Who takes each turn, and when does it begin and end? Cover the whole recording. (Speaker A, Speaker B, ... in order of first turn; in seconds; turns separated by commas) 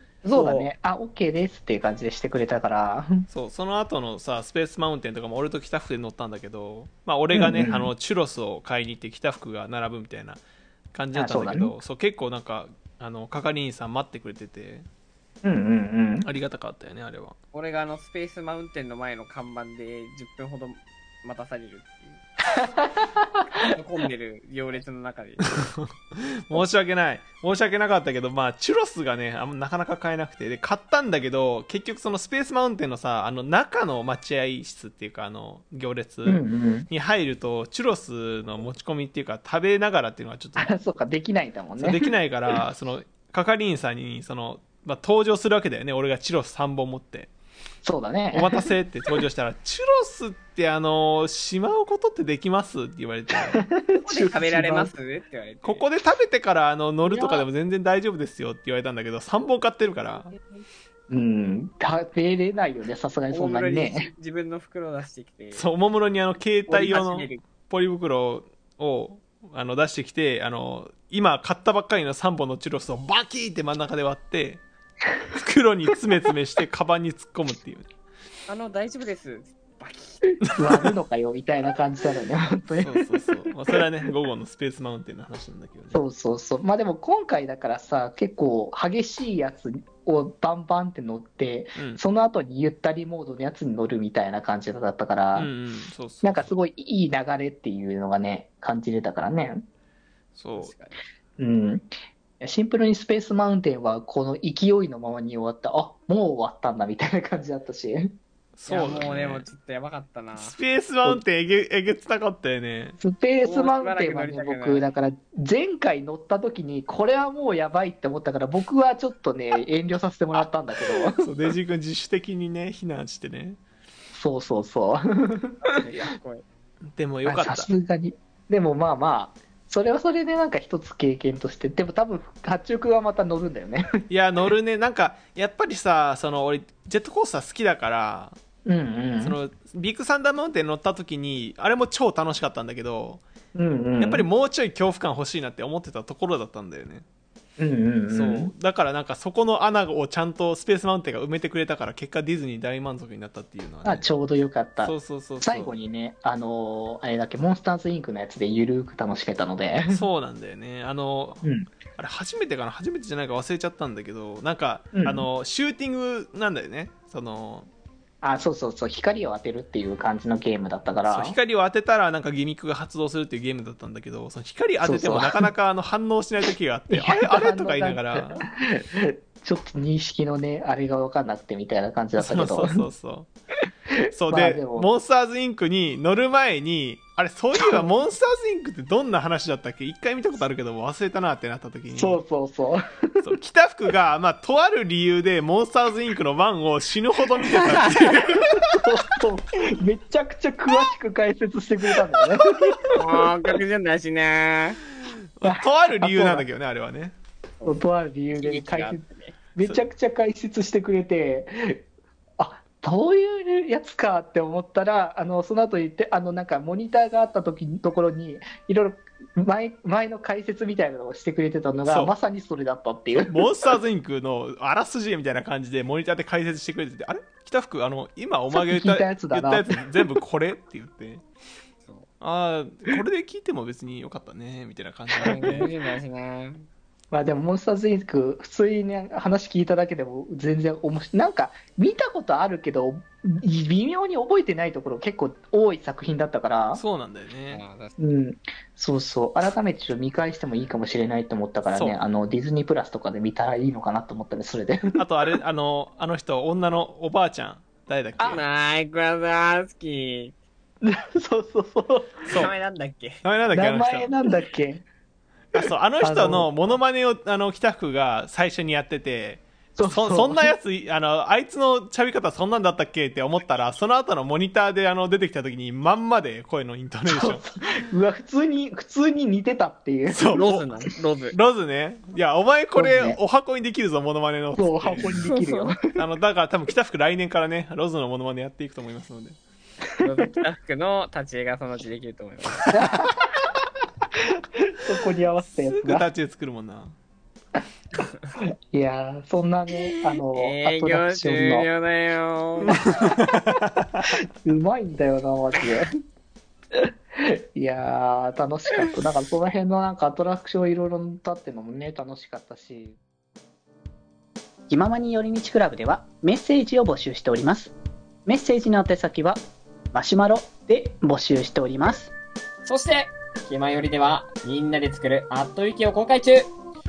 Speaker A: 0.2-0.7, Speaker B: 0.3-3.3, Speaker C: 3.3-10.4, Speaker B: 7.3-7.9, Speaker C: 10.9-14.9, Speaker B: 11.1-11.7, Speaker B: 15.4-16.2, Speaker C: 16.2-17.4, Speaker A: 17.5-22.2, Speaker B: 22.6-23.4, Speaker A: 23.6-25.7, Speaker C: 25.5-40.7, Speaker B: 36.2-36.9, Speaker B: 40.6-42.6, Speaker C: 41.8-47.3, Speaker B: 47.8-48.7, Speaker C: 48.3-53.6, Speaker B: 53.5-54.9, Speaker A: 54.0-55.8, Speaker C: 55.6-60.3, Speaker A: 57.0-57.5, Speaker A: 60.0-60.6, Speaker B: 61.1-64.1, Speaker A: 63.3-65.7, Speaker C: 65.5-74.6, Speaker A: 66.7-67.4, Speaker C: 75.3-77.9, Speaker A: 78.5-80.3, Speaker B: 80.5-83.3, Speaker C: 82.8-86.0, Speaker B: 85.9-95.5, Speaker C: 91.8-92.0, Speaker C: 95.3-96.5, Speaker B: 96.2-99.6, Speaker C: 100.4-100.7, Speaker A: 100.6-101.0, Speaker B: 101.4-108.1, Speaker C: 108.6-109.5, Speaker A: 108.7-110.6, Speaker C: 110.4-113.0, Speaker B: 113.0-121.3, Speaker A: 113.4-114.9, Speaker C: 121.2-123.6, Speaker B: 124.1-125.6, Speaker A: 125.6-126.4, Speaker C: 127.0-127.7, Speaker B: 127.2-133.9, Speaker C: 134.1-138.4, Speaker B: 138.6-139.4, Speaker C: 139.2-143.2, Speaker B: 143.5-144.3, Speaker C: 144.0-147.1, Speaker B: 147.6-148.5, Speaker C: 148.1-154.1, Speaker B: 153.8-160.1, Speaker C: 154.8-155.8, Speaker C: 159.9-161.4, Speaker C: 162.0-167.7, Speaker B: 164.9-165.3, Speaker B: 168.2-171.4, Speaker C: 171.0-178.4, Speaker B: 174.8-175.4, Speaker B: 176.9-182.9, Speaker C: 182.2-183.3, Speaker B: 183.9-184.9, Speaker C: 184.1-192.2, Speaker B: 187.6-187.9, Speaker B: 191.9-193.3, Speaker C: 193.2-198.7, Speaker B: 198.3-202.9, Speaker A: 202.9-204.8, Speaker C: 205.3-207.1, Speaker B: 205.4-206.4, Speaker B: 207.6-209.0, Speaker A: 208.3-209.4, Speaker B: 209.6-211.8, Speaker B: 212.4-223.4, Speaker C: 221.9-222.1, Speaker C: 223.3-231.2, Speaker B: 228.5-229.9, Speaker C: 232.2-235.7, Speaker A: 235.2-236.7, Speaker B: 235.3-235.7, Speaker B: 237.1-246.8, Speaker C: 246.8-247.6, Speaker A: 247.5-247.9, Speaker B: 248.0-255.0, Speaker C: 251.7-252.0, Speaker C: 254.9-258.4, Speaker A: 258.2-260.3, Speaker B: 260.8-262.2, Speaker A: 262.3-263.2, Speaker C: 263.2-264.1, Speaker B: 263.5-264.9, Speaker C: 265.5-277.4, Speaker B: 265.6-266.6, Speaker B: 269.8-270.5, Speaker B: 277.1-280.3, Speaker C: 280.1-280.6, Speaker A: 280.3-281.4, Speaker C: 281.3-285.2, Speaker B: 282.8-283.2, Speaker B: 284.6-286.0, Speaker A: 285.0-285.7, Speaker C: 285.9-289.4, Speaker A: 290.0-292.8, Speaker B: 292.7-293.2, Speaker B: 294.2-296.1, Speaker C: 295.5-296.9, Speaker B: 298.7-301.7, Speaker A: 300.4-302.9, Speaker C: 303.0-304.0, Speaker B: 304.4-305.9, Speaker B: 306.7-313.0, Speaker D: 314.7-317.8, Speaker D: 318.2-319.4, Speaker D: 319.9-322.1, Speaker E: 322.7-326.5, Speaker A: 324.7-326.3